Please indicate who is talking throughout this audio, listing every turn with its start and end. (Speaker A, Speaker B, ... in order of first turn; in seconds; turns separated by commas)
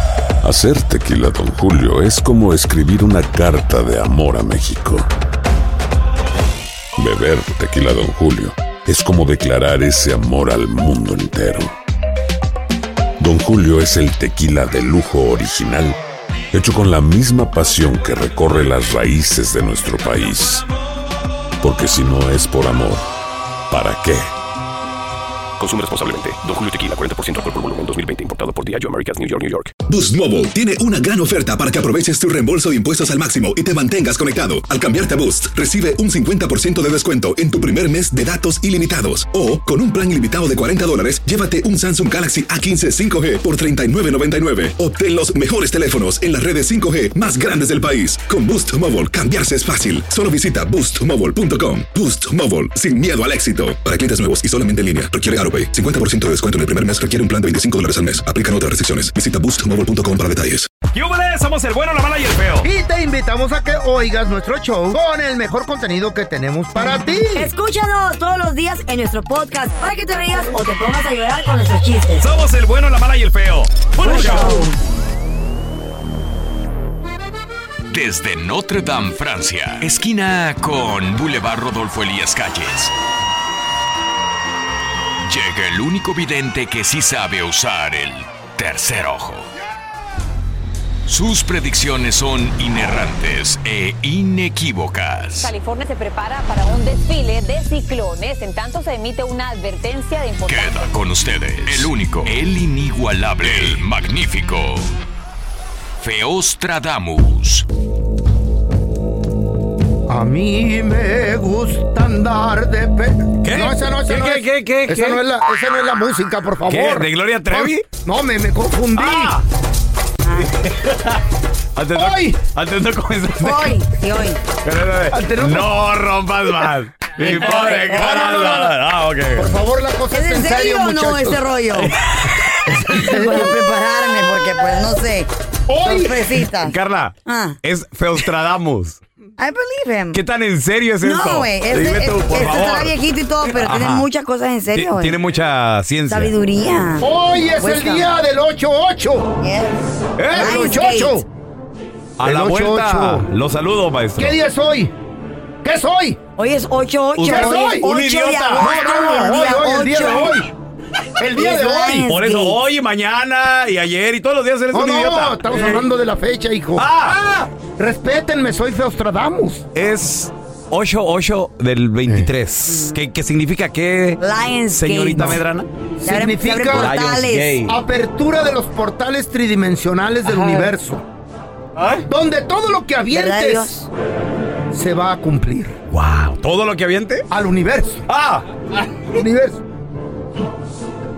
Speaker A: 0.4-5.1, Speaker A: 6.9-11.7, Speaker A: 13.2-16.0, Speaker A: 16.5-20.7, Speaker A: 21.6-23.1, Speaker A: 23.7-24.3, Speaker B: 25.6-29.7, Speaker C: 29.9-60.7, Speaker D: 60.9-62.7, Speaker E: 62.6-67.5, Speaker F: 67.3-72.2, Speaker D: 72.2-74.7, Speaker F: 74.0-74.7, Speaker G: 77.9-82.9, Speaker G: 85.2-89.5, Speaker G: 91.0-95.5, Speaker H: 95.4-101.0, Speaker G: 100.5-104.9, Speaker G: 106.0-107.7, Speaker E: 110.1-119.3, Speaker D: 113.4-115.2, Speaker D: 116.6-117.8, Speaker D: 119.0-119.4, Speaker F: 120.2-120.5, Speaker D: 120.5-121.2, Speaker D: 121.8-123.8, Speaker E: 121.9-122.4, Speaker F: 123.4-124.4, Speaker D: 124.6-129.6, Speaker E: 125.1-125.7, Speaker E: 127.2-128.8, Speaker F: 127.4-128.1, Speaker E: 129.3-131.5, Speaker F: 130.1-131.9, Speaker E: 132.7-133.5, Speaker F: 132.9-135.3, Speaker E: 135.7-136.4, Speaker F: 135.8-136.7, Speaker D: 136.6-139.0, Speaker F: 137.2-137.6, Speaker F: 139.4-140.2, Speaker D: 140.1-144.1, Speaker F: 141.0-145.2, Speaker D: 144.7-146.3, Speaker F: 146.1-148.1, Speaker E: 147.0-149.4, Speaker F: 149.4-149.8, Speaker D: 150.2-150.6, Speaker E: 150.3-151.2, Speaker F: 150.3-151.2, Speaker D: 152.2-154.3, Speaker E: 152.2-153.3, Speaker E: 154.2-154.9, Speaker E: 155.6-156.2, Speaker F: 156.4-160.4, Speaker D: 157.2-158.6, Speaker E: 157.2-160.5, Speaker E: 161.2-162.1, Speaker F: 161.3-162.6, Speaker D: 162.1-165.6, Speaker E: 164.7-169.6, Speaker D: 166.8-167.5, Speaker D: 169.7-174.2, Speaker F: 174.2-175.4, Speaker D: 174.7-175.7, Speaker E: 176.0-176.9, Speaker F: 176.1-177.7, Speaker D: 176.7-177.6, Speaker E: 177.6-181.0, Speaker D: 181.8-182.0, Speaker E: 182.1-183.7, Speaker F: 183.1-183.9, Speaker E: 184.7-185.8, Speaker D: 185.9-187.2, Speaker E: 187.3-188.1, Speaker D: 188.1-188.8, Speaker E: 189.1-189.6